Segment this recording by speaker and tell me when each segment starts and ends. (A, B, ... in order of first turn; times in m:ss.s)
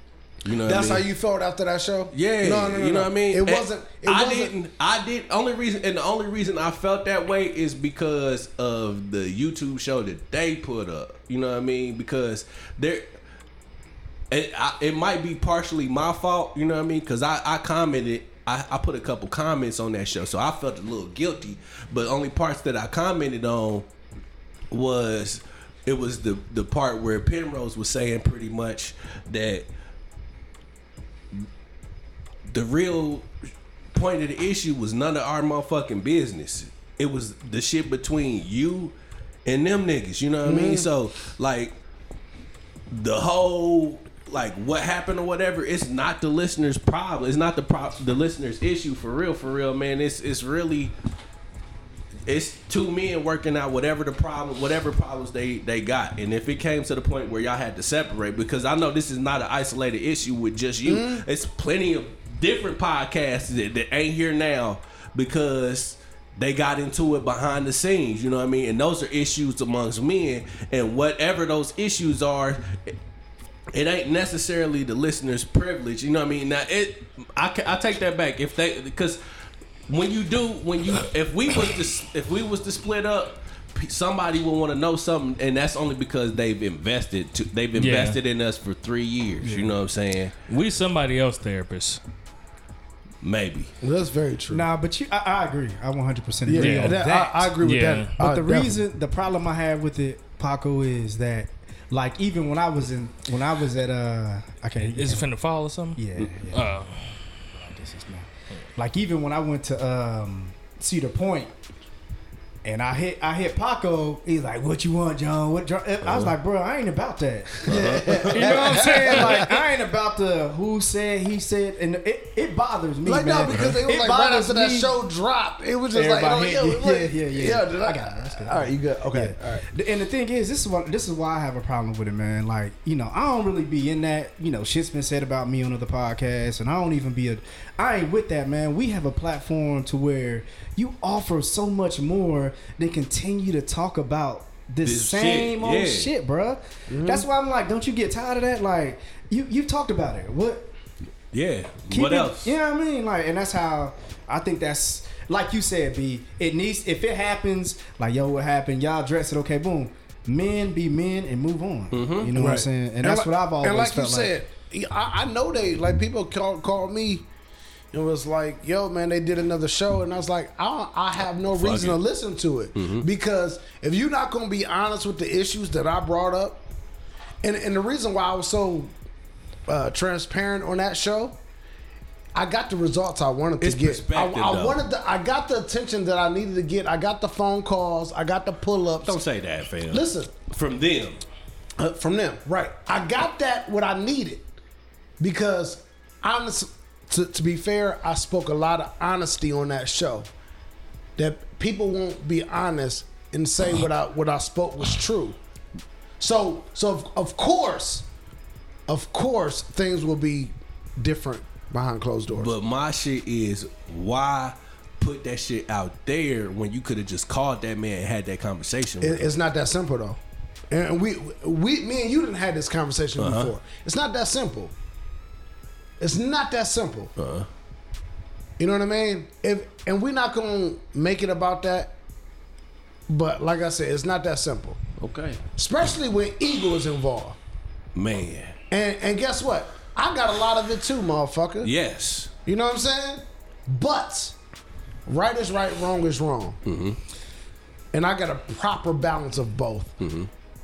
0:00.4-0:01.1 A
0:00.6-0:04.5 B
0:02.1-0:13.0 A
0:14.3-0:23.9 A
0:24.7-0:29.7 A
0:32.5-0:33.3 A
0:33.9-0:39.0 A
0:39.5-0:41.8 A
0:40.4-0:40.9 B
0:42.9-0:50.9 A
0:52.3-1:12.9 A
1:00.8-1:01.2 B
1:13.7-1:19.2 A
1:19.9-1:30.3 A
1:27.8-1:28.2 C
1:29.4-1:29.7 D
1:30.5-1:32.0 C
1:33.2-1:33.7 A
1:33.8-1:34.7 B
1:34.5-1:37.6 D
1:36.5-1:38.8 B
1:36.6-1:37.0 C
1:37.6-1:38.1 C
1:38.2-1:45.3 D
1:44.8-1:46.0 C
1:46.0-1:46.7 D
1:46.5-1:47.2 C
1:47.5-1:51.5 D
1:52.6-2:04.9 D
1:57.6-1:58.5 A
1:57.7-1:59.5 B
1:58.3-1:59.6 C
2:03.0-2:09.6 B
2:05.9-2:30.7 D
2:24.8-2:26.1 A
2:26.9-2:27.3 B
2:31.3-2:32.5 A
2:31.9-2:44.3 D
2:41.9-2:42.3 A
2:42.4-2:47.3 B
2:47.9-2:56.7 B
2:51.4-2:52.0 A
2:52.8-2:53.1 A
2:57.4-2:58.9 B
2:59.7-3:01.4 B
3:02.4-3:09.2 B
3:03.6-3:04.8 A
3:09.0-3:11.2 A
3:09.9-3:10.3 B
3:11.8-3:14.4 B
3:15.2-3:20.3 B
3:21.2-3:25.4 B
3:26.2-3:28.1 B
3:28.9-3:32.5 B
3:32.3-3:39.3 A
3:39.0-3:40.2 B
3:40.7-3:44.7 B
3:43.2-3:43.5 A
3:46.0-3:47.1 B
3:47.2-3:47.5 A
3:48.6-3:52.0 B
3:53.1-3:54.8 B
3:55.0-3:55.4 A
3:55.6-3:57.4 B
3:58.0-3:58.6 A
3:58.7-4:01.7 B
4:01.6-4:02.3 A
4:02.5-4:04.4 B
4:05.1-4:06.6 B
4:06.6-4:07.0 A
4:07.9-4:10.0 B
4:10.0-4:10.3 A